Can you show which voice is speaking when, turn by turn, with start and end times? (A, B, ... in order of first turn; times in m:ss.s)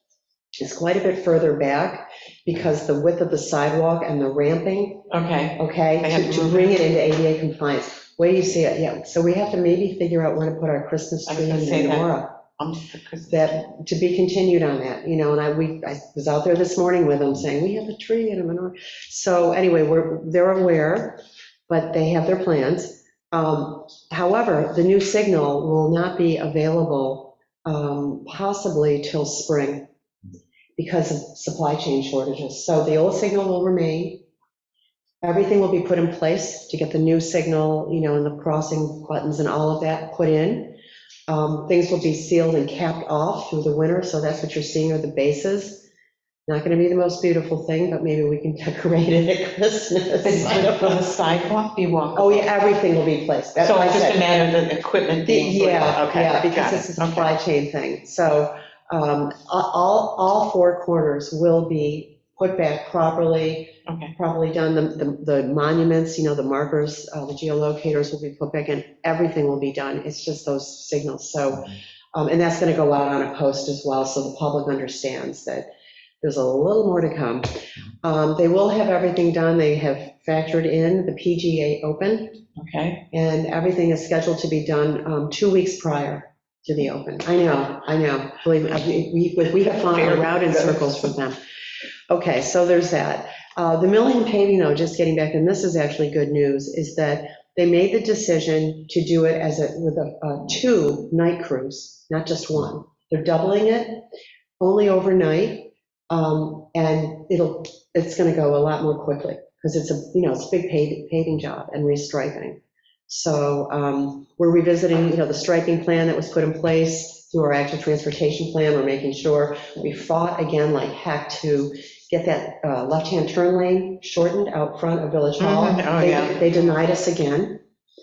0:00.6-0:12.4 A
0:05.1-0:06.7 B
0:11.3-0:13.5 B
0:13.3-0:29.9 A
0:30.8-0:34.2 A
0:35.2-0:40.8 A
0:41.3-0:45.9 A
0:46.5-0:51.0 A
0:50.2-0:52.5 B
0:52.2-0:54.4 A
0:53.6-0:57.3 B
0:55.2-1:15.7 A
1:03.8-1:04.1 B
1:16.2-1:22.4 A
1:22.6-1:23.0 B
1:23.1-1:31.4 A
1:29.6-1:31.1 B
1:32.1-1:44.0 A
1:44.6-2:07.6 A
2:05.4-2:06.5 B